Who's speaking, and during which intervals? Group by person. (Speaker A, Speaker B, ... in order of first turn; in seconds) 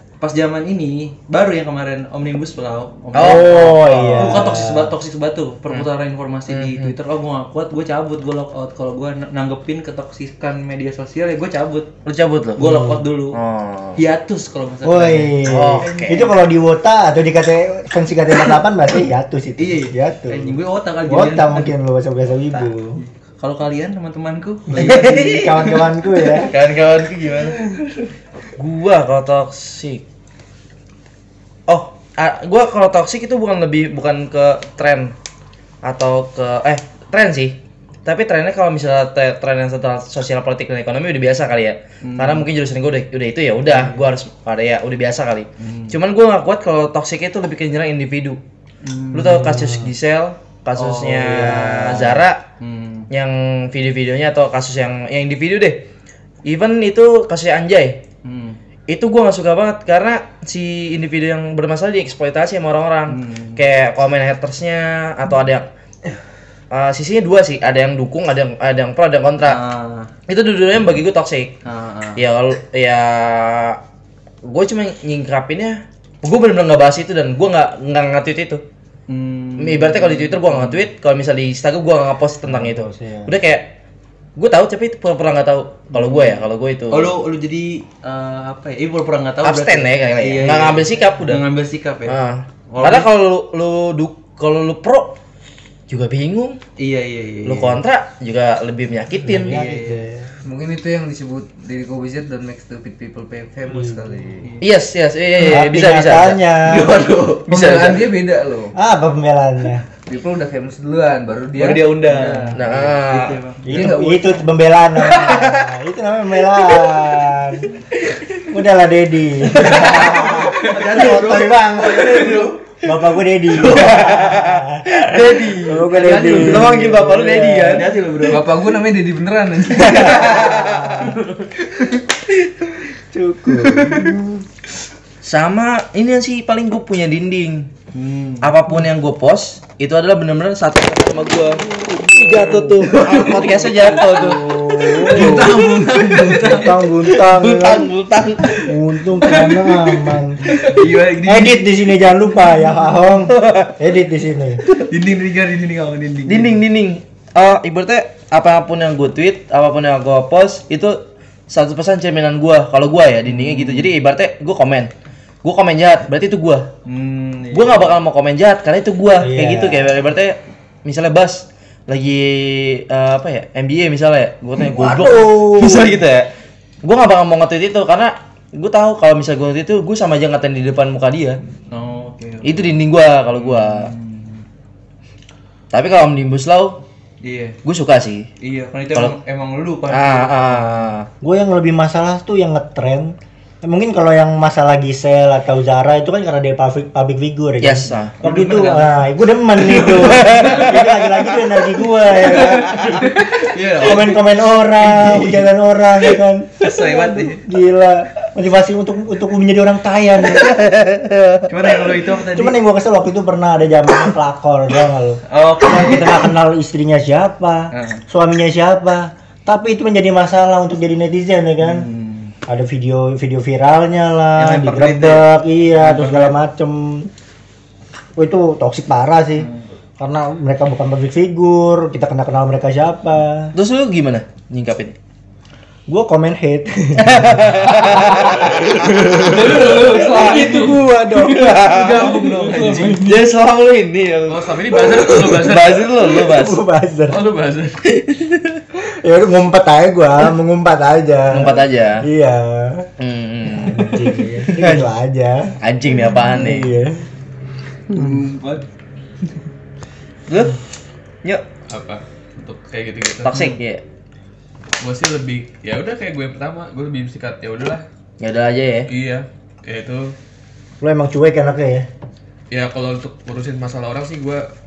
Speaker A: 0.2-11.9, 12.6-13.4, 14.0-16.5, 19.6-21.7, 23.0-26.5, 27.3-28.1, 42.0-42.5, 45.6-46.0, 48.8-49.6, 50.8-53.1, 58.2-58.6, 63.1-63.6, 69.4-70.1, 71.7-72.2, 79.1-80.9, 86.0-92.2, 92.7-93.1, 96.8-97.8, 99.4-100.0, 104.4-104.7, 106.6-107.5, 111.6-114.0, 119.5-122.9, 123.5-124.2, 125.2-128.5, 137.9-138.6, 142.3-147.2, 148.4-151.9, 154.7-156.6, 163.2-163.9, 166.8-168.0, 181.7-182.8, 183.3-184.4, 187.2-187.6, 188.4-190.8, 198.2-200.8, 202.1-205.5, 206.6-207.4, 211.5-212.6, 215.3-216.3, 217.7-218.0, 221.6-222.3, 224.4-226.4, 229.4-229.6, 241.8-242.9, 254.4-254.8, 257.9-258.6
Speaker B: 3.1-4.6, 6.5-6.9, 12.1-14.0, 15.4-16.3, 24.7-25.8, 26.4-27.6, 28.6-30.0, 31.7-35.1, 35.8-48.4, 49.1-52.4, 53.1-55.8, 56.4-58.0, 58.9-65.7, 66.7-69.6, 70.3-71.5, 72.2-73.8, 74.4-78.6, 79.6-83.7, 84.4-87.1, 89.4-91.4, 92.1-95.2, 95.9-96.6, 97.5-99.6, 104.6-106.4, 107.5-108.1, 112.5-113.4, 115.0-115.7, 119.6-120.4, 123.6-127.9, 130.0-131.1, 135.2-137.7, 138.4-145.6, 147.2-148.6, 153.3-153.8, 156.3-164.9, 165.4-166.7, 167.5-176.3, 176.8-181.4, 182.4-183.9, 185.7-186.8, 187.6-188.3, 189.9-191.1, 197.6-198.2, 199.9-200.9, 210.4-211.4, 233.5-234.9, 237.0-242.2, 242.8-246.6, 247.9-248.6, 251.3-252.1, 253.0-254.0, 255.6-256.7, 260.3-260.6, 263.2-263.8, 268.2-268.9
Speaker C: 3.2-4.9, 14.8-23.0, 24.7-26.5, 49.3-49.9, 51.2-52.2, 82.4-83.3, 99.2-100.3, 103.7-104.2, 105.4-106.9, 108.8-109.8, 113.7-117.8, 118.5-125.1, 125.6-127.8, 129.7-131.2, 133.1-134.4, 141.9-142.9, 144.2-145.6, 146.2-147.9, 148.6-150.5, 151.2-154.6, 169.2-170.0, 174.6-176.1, 191.2-210.7, 212.2-221.9, 222.5-227.1, 228.2-233.6, 235.9-241.7, 246.1-247.2, 248.8-252.9, 253.5-255.5, 256.2-257.1, 257.9-258.2, 270.8-271.9
Speaker D: 100.4-104.5, 107.5-108.7, 110.1-112.7, 113.7-114.5, 128.3-130.4, 145.2-146.4, 239.1-240.9, 241.6-243.2
Speaker E: 237.8-240.0, 242.1-243.0, 244.3-246.1, 247.1-247.8, 261.7-263.5, 264.8-267.8, 268.9-270.1, 272.5-274.5